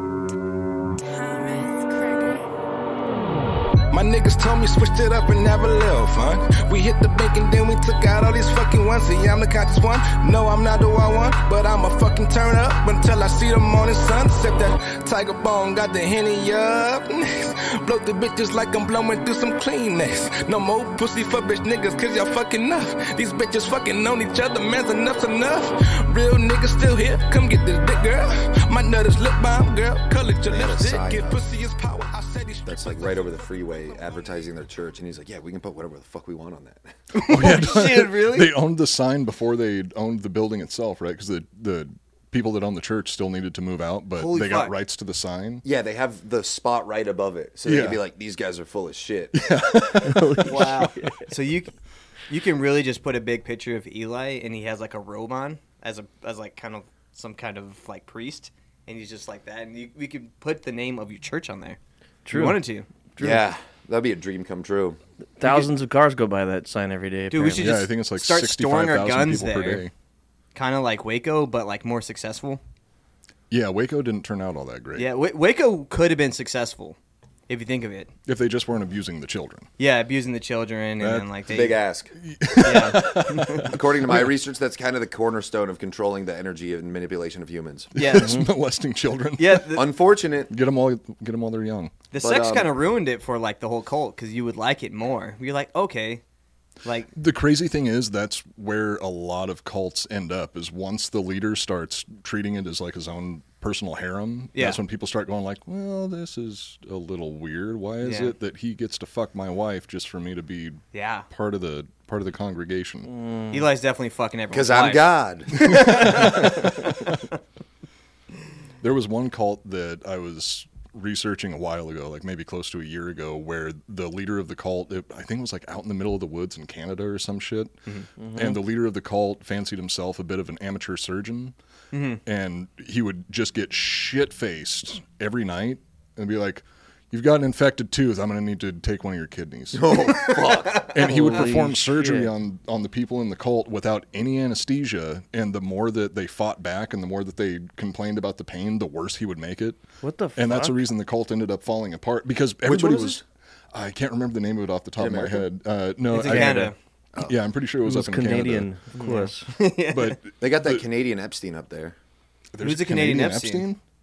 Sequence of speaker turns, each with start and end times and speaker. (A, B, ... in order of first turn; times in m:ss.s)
0:01.2-0:02.4 A
0:03.9-0:33.2 A
0:30.5-0:31.4 B
0:32.6-0:36.9 B
0:37.1-0:38.5 C
0:37.1-0:45.6 D
0:44.1-0:44.7 C
0:45.6-0:49.4 B
0:47.6-0:48.0 D
0:49.3-0:50.7 D
0:50.0-0:51.2 E
0:50.4-0:51.7 C
0:52.3-1:02.9 C
1:02.2-1:02.6 E
1:03.2-1:03.5 E
1:03.2-1:05.0 B
1:05.4-1:07.8 E
1:05.4-1:05.7 C
1:07.3-1:09.8 C
1:07.6-1:09.9 D
1:10.5-1:12.6 C
1:13.5-1:15.1 D
1:14.9-1:17.0 C
1:17.5-1:18.1 C
1:18.2-1:19.7 D
1:19.8-1:21.8 C
1:21.0-1:21.3 D
1:21.5-1:22.1 B
1:22.2-1:24.3 D
1:22.6-1:23.7 C
1:23.6-1:27.9 B
1:27.9-1:29.8 D
1:27.9-1:28.3 C
1:28.2-1:28.5 E
1:29.4-1:29.8 C
1:29.7-1:30.5 B
1:30.5-1:31.9 D
1:32.1-1:36.2 C
1:32.2-1:32.7 B
1:36.8-1:37.1 C
1:37.2-1:53.1 D
1:44.5-1:44.8 C
1:48.0-1:48.3 C
1:50.9-1:51.3 C
1:53.1-1:53.6 E
1:53.5-1:57.0 C
1:54.5-1:56.2 B
1:55.6-1:56.9 D
1:58.8-2:07.8 D
2:08.2-2:08.6 E
2:08.3-2:11.5 D
2:11.9-2:12.2 C
2:12.2-2:20.1 D
2:19.7-2:21.0 B
2:20.8-2:29.8 D
2:21.0-2:22.3 E
2:30.0-2:30.8 E
2:30.3-2:38.7 D
2:32.6-2:33.2 B
2:35.0-2:35.4 B
2:36.1-2:36.8 C
2:37.8-2:39.5 E
2:39.0-2:40.2 C
2:39.9-2:40.8 D
2:40.4-2:42.0 B
2:42.5-2:43.8 D
2:42.6-2:43.7 C